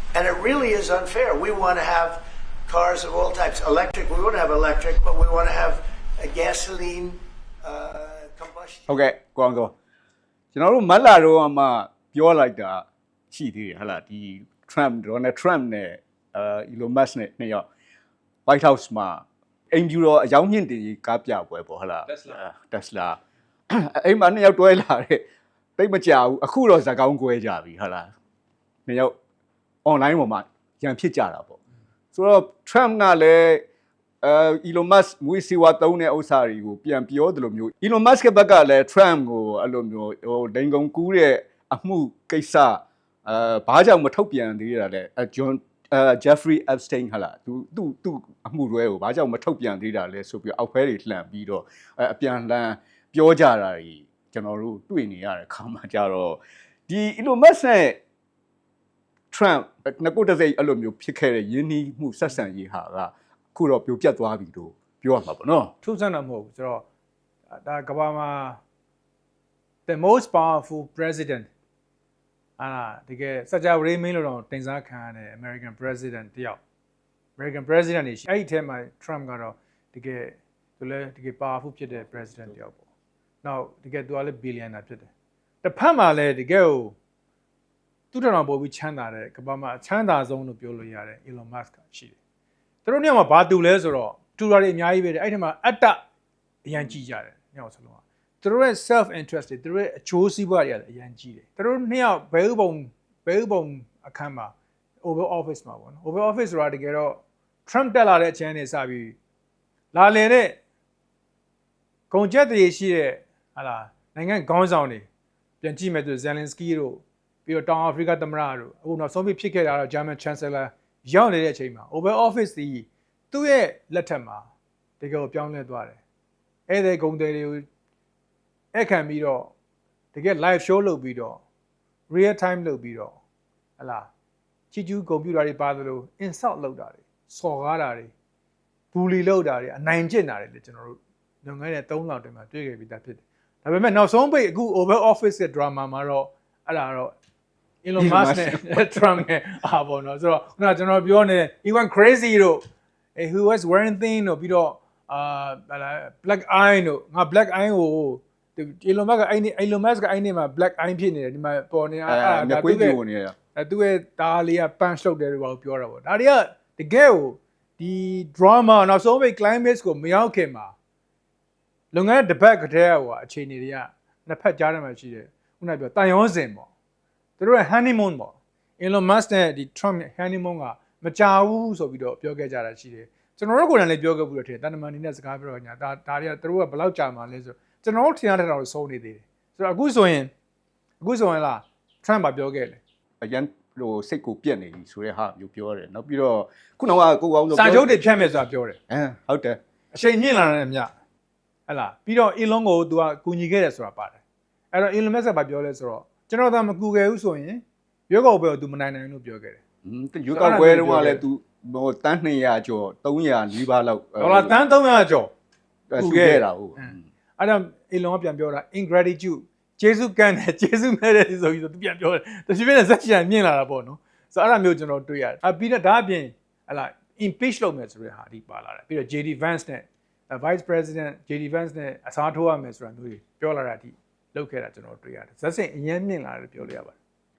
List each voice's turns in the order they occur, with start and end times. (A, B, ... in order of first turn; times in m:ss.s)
0:00.1-0:09.0 A
0:08.9-0:09.7 B
0:10.5-0:17.6 B
0:18.5-0:23.2 B
0:23.7-0:25.2 B
0:25.8-0:28.1 B
0:28.9-0:29.1 B
0:29.8-0:31.6 B
0:32.1-0:33.6 B
0:34.2-0:58.0 B
0:59.3-1:05.7 B
1:05.8-1:06.8 C
1:07.6-1:08.6 C
1:09.9-1:11.5 C
1:12.6-1:16.6 C
1:17.4-1:22.8 C
1:23.4-1:25.1 C
1:25.6-1:27.0 C
1:28.1-1:32.2 C
1:32.8-1:36.0 C
1:36.6-1:49.2 C
1:49.9-1:50.6 C
1:52.1-1:55.1 C
1:55.6-2:04.5 C
2:05.0-2:06.0 C
2:06.7-2:07.7 C
2:08.7-2:09.5 C
2:10.1-2:11.4 C
2:12.1-2:13.2 C
2:13.8-2:14.1 C
2:14.7-2:18.1 C
2:18.9-2:27.2 C
2:27.8-2:32.6 C
2:28.0-2:29.1 B
2:33.2-2:43.0 C
2:42.1-2:43.4 B
2:43.5-2:50.7 C
2:51.9-2:56.7 C
2:57.4-3:10.3 C
3:11.0-3:12.8 C
3:13.2-3:18.0 B
3:17.5-3:18.8 C
3:18.9-3:19.6 B
3:19.9-3:20.9 C
3:21.7-3:24.2 C
3:24.7-3:29.6 C
3:29.8-3:34.6 B
3:30.3-3:31.2 C
3:34.2-3:35.3 C
3:35.9-3:37.0 B
3:36.0-3:57.0 C